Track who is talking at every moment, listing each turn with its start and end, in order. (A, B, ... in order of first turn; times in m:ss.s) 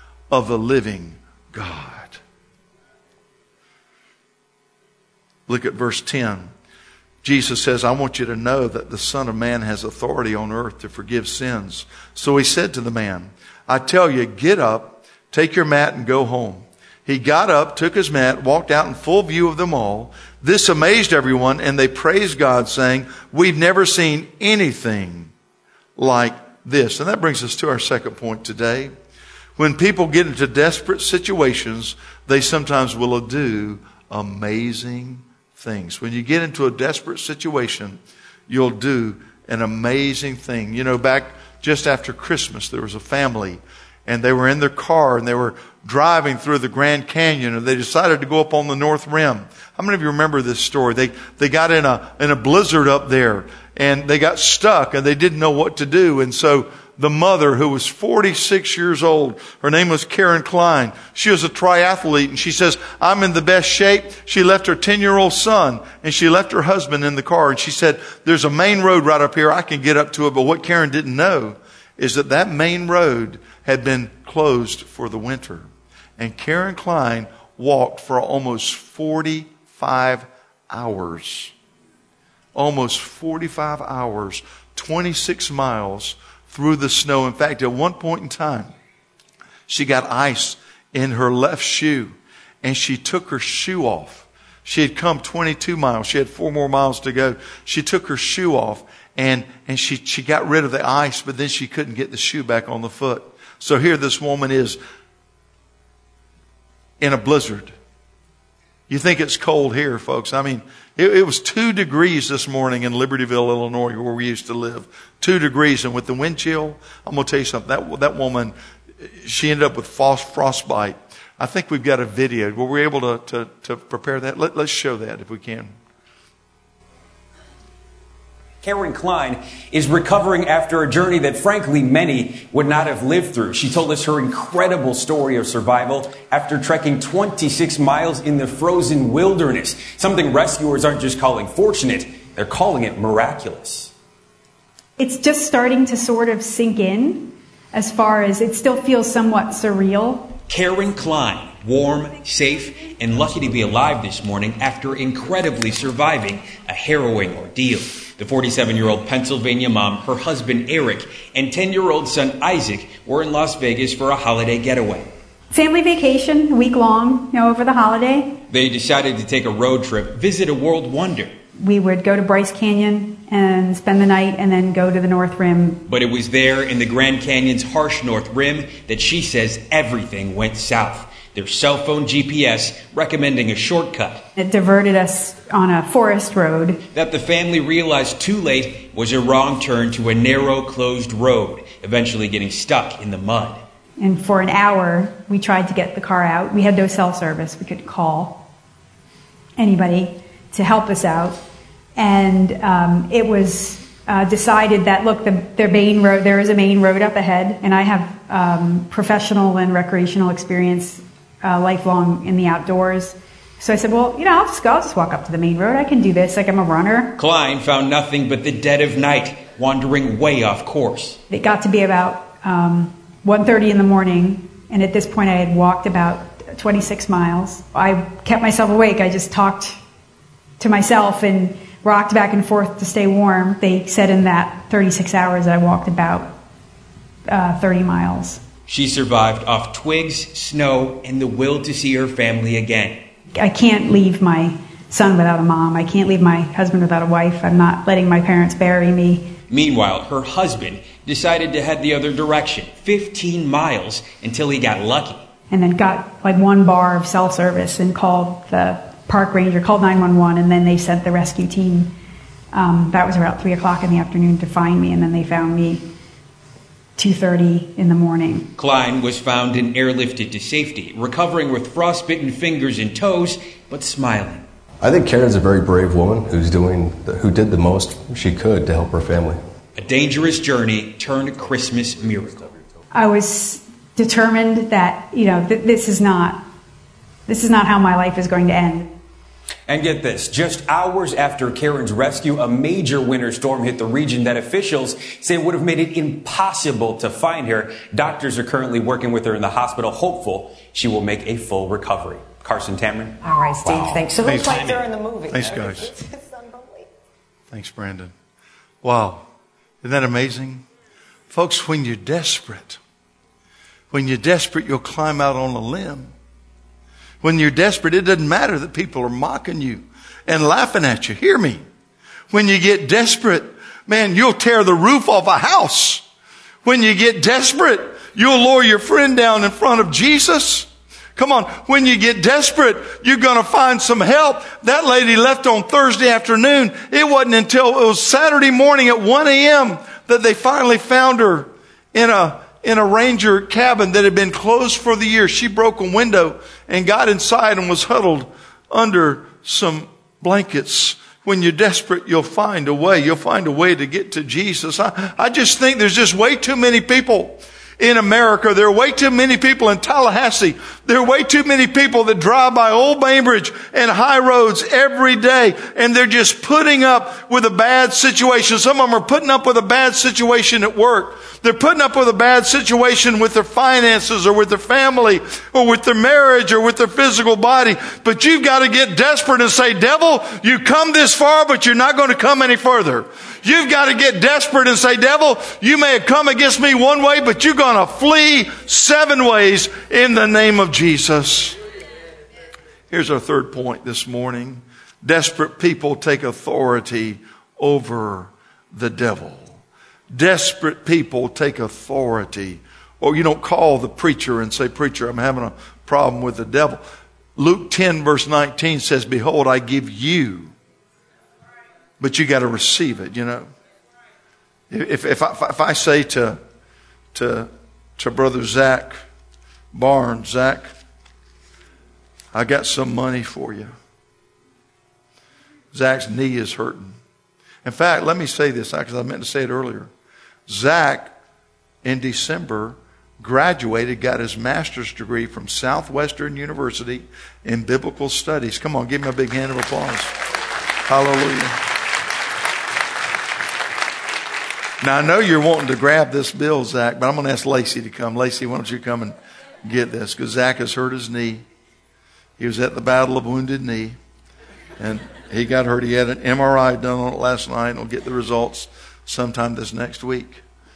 0:00.3-0:02.2 A
0:05.5-0:06.5 A
0:07.2-0:25.3 A
0:26.0-0:28.9 A
0:29.6-1:21.5 A
1:22.6-1:28.7 A
1:29.7-1:44.8 A
1:47.0-1:47.7 A
1:48.9-1:58.5 A
1:59.2-2:05.7 A
2:08.6-2:23.9 B
2:25.0-2:30.3 C
2:30.5-2:45.1 B
2:45.5-2:48.4 C
2:48.5-2:51.3 B
2:51.6-2:55.8 C
2:55.9-3:04.2 B
3:04.4-3:06.8 C
3:06.9-3:13.6 B
3:14.0-3:18.4 C
3:19.6-3:21.4 C
3:22.0-3:37.1 C
3:37.2-3:41.2 B
3:41.3-3:49.8 C
3:50.6-3:56.3 C
3:57.3-3:58.4 C
3:58.7-4:03.0 B
4:03.3-4:09.3 C
4:09.5-4:15.2 B
4:15.5-4:21.9 C
4:22.5-4:25.8 C
4:27.0-4:28.5 C
4:28.6-4:34.4 B
4:34.8-4:39.4 D
4:39.8-4:42.5 B
4:42.9-4:46.4 C
4:47.3-4:48.9 C
4:49.7-5:03.2 B
5:03.2-5:06.9 E
5:04.2-5:04.7 A
5:05.3-5:05.9 A
5:07.5-5:08.1 A
5:08.8-5:09.3 A
5:09.8-5:10.6 A
5:11.3-5:12.8 A
5:13.9-5:16.1 A
5:17.2-5:21.6 A
5:22.3-5:26.0 A
5:26.6-6:31.6 A
6:32.9-6:39.6 A
6:40.1-6:46.8 A
6:47.4-6:50.5 A
6:52.0-6:53.5 A
6:54.7-6:56.4 A
6:57.1-6:59.0 A
6:59.7-7:00.7 A
7:02.3-7:03.7 A
7:05.7-7:07.0 A
7:07.6-7:09.9 A
7:10.5-7:11.1 A
7:11.8-7:20.1 A
7:20.9-7:21.6 A
7:24.8-7:31.4 A
7:32.4-7:34.0 A
7:34.8-7:40.4 A